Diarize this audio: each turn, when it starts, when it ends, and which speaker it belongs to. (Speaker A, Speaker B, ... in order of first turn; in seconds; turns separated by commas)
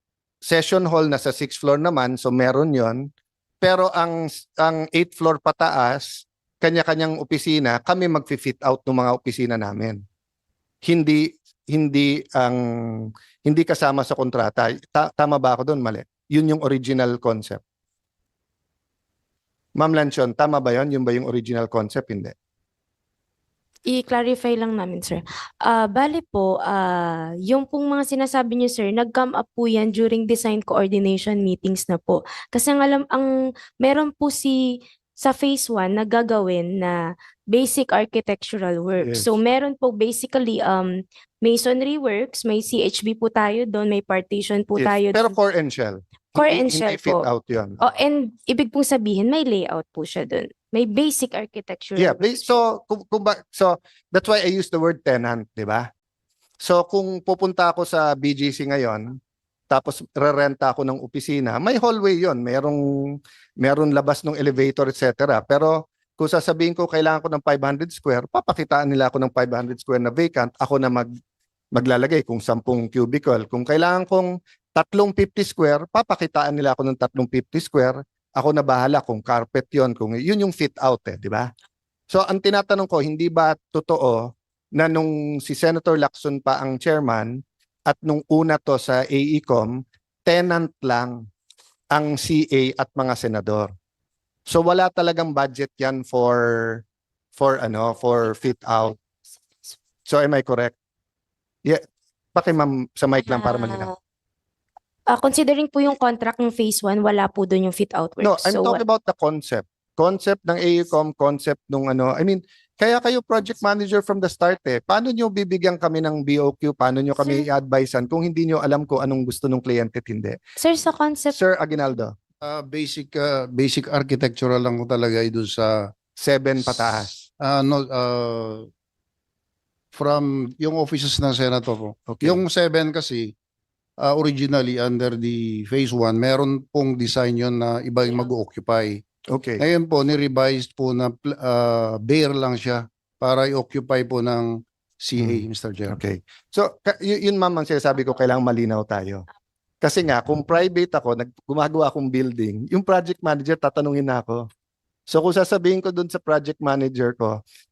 Speaker A: 0.4-3.1, Speaker A: 3.6-10.0, Speaker A: 10.8-17.6, Speaker A: 19.8-22.3, Speaker B: 23.9-45.4, Speaker A: 39.0-39.3, Speaker A: 44.8-47.9, Speaker B: 46.4-52.6, Speaker A: 52.0-55.9, Speaker A: 56.6-59.2, Speaker A: 59.7-71.1, Speaker A: 71.7-81.5, Speaker A: 82.1-91.2, Speaker A: 91.9-93.7, Speaker A: 94.5-96.8, Speaker A: 97.3-99.0, Speaker A: 100.1-100.7, Speaker A: 102.3-103.9, Speaker B: 105.1-108.8, Speaker A: 108.2-120.4, Speaker B: 120.5-121.4, Speaker A: 121.3-122.1, Speaker C: 122.4-125.9, Speaker A: 126.2-127.2, Speaker C: 126.8-128.7, Speaker C: 129.9-133.3, Speaker A: 132.1-132.4, Speaker C: 134.0-139.0, Speaker A: 139.3-139.6, Speaker C: 139.6-146.0, Speaker A: 145.2-149.2, Speaker A: 149.8-154.4, Speaker A: 155.1-157.4